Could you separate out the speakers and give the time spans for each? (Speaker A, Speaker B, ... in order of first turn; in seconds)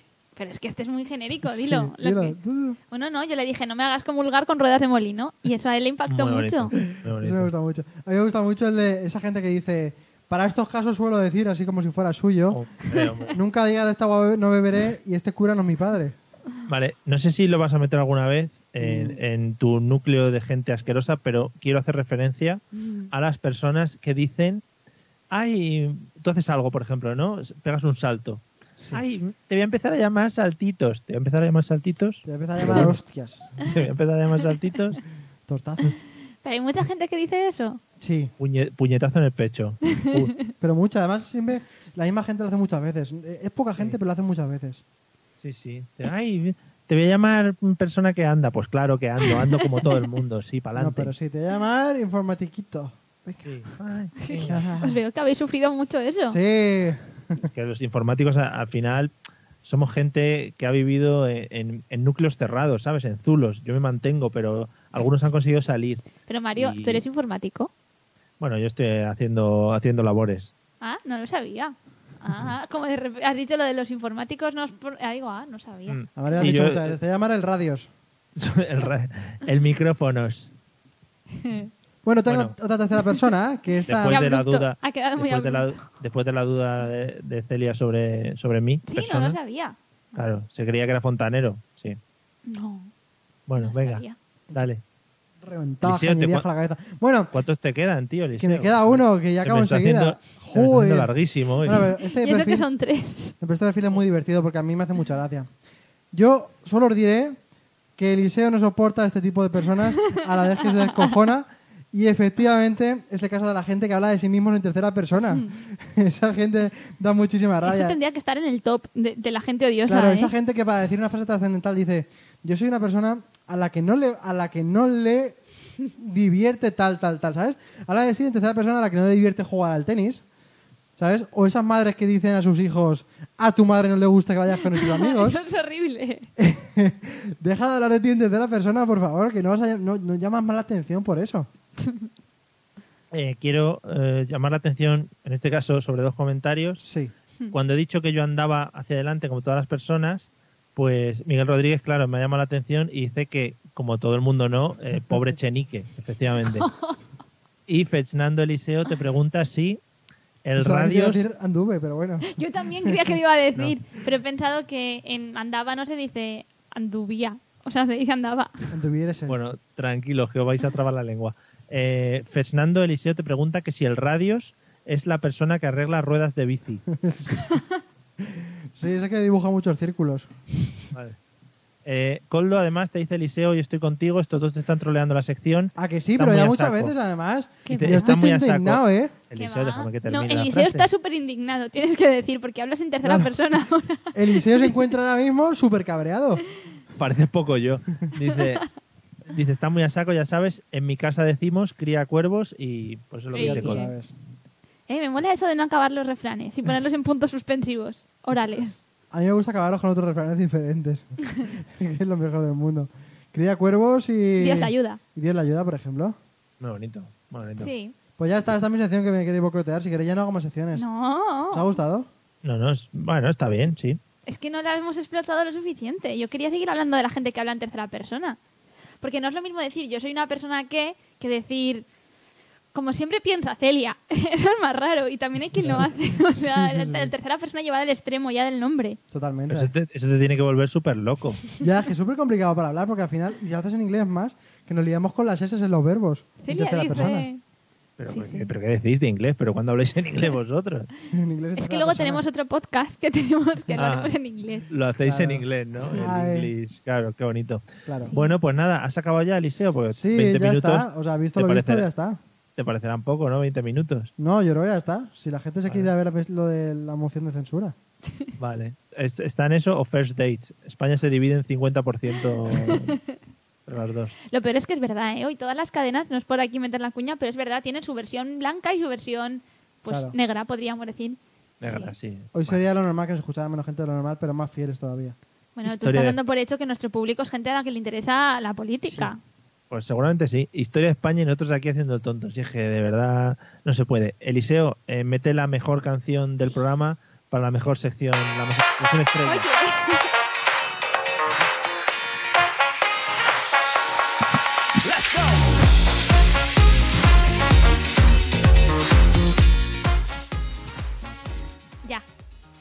Speaker A: 0.3-2.4, 2.9-6.7, 36.4-37.8, 54.2-56.4, 66.3-67.7, 70.8-76.0, 81.4-81.7, 84.1-85.8, 88.9-89.8, 92.5-92.9, 93.6-94.2, 102.0-103.3, 110.1-111.1, 117.6-120.3, 134.7-136.3, 141.8-142.1, 156.4-157.0, 162.2-168.7, 187.7-188.2, 189.3-194.7, 203.3-203.9, 204.9-208.8, 214.4-215.0, 217.6-217.9, 220.7-221.7, 224.3-228.4, 229.0-231.9, 232.7-239.0, 246.4-247.4, 248.1-248.5, 251.6-254.7, 272.5-272.9, 274.3-281.9, 285.6-289.2, 299.2-300.1
Speaker B: 1.4-2.8, 6.9-12.6, 13.3-16.1, 18.8-19.2, 32.2-33.5, 35.5-36.0, 38.0-38.3, 40.6-44.8, 50.8-53.5, 54.4-55.0, 56.3-57.5, 76.2-77.9, 82.0-84.2, 95.4-97.3, 98.4-102.7, 103.4-105.5, 106.1-107.4, 108.0-118.0, 119.9-125.4, 126.0-130.2, 131.0-135.4, 136.4-141.5, 146.8-147.1, 160.6-162.9, 168.7-169.4, 177.0-177.5, 178.2-180.3, 185.8-189.1, 193.0-193.3, 194.1-196.4, 203.4-204.1, 209.1-216.2, 218.2-220.8, 221.5-222.1, 236.3-237.1, 239.1-239.7, 241.6-247.3, 251.1-252.2, 255.0-256.5, 257.9-258.1, 259.9-262.2, 264.2-267.7, 279.9-280.1, 282.3-285.1
Speaker C: 6.1-7.5, 12.5-13.3, 16.7-24.6, 25.3-33.0, 33.6-35.0, 38.4-40.3, 45.4-51.1, 53.4-54.6, 57.4-59.1, 59.6-66.0, 66.5-67.0, 68.4-70.5, 75.9-77.0, 78.3-80.5, 82.3-82.5, 83.9-89.4, 90.1-92.0, 93.5-94.8, 95.8-96.5, 97.3-101.8, 143.1-146.8, 147.5-156.7, 157.7-159.8, 160.4-161.2, 169.3-176.9, 181.8-186.9, 187.7-190.9, 197.0-198.7, 199.3-203.8, 216.6-217.7, 222.4-224.0, 239.5-241.4, 248.0-250.9, 253.7-254.1, 254.7-261.9, 262.6-264.1, 265.6-265.9, 268.4-273.0, 273.7-274.1, 281.6-282.6, 285.6-286.2, 289.7-299.5, 304.9-305.3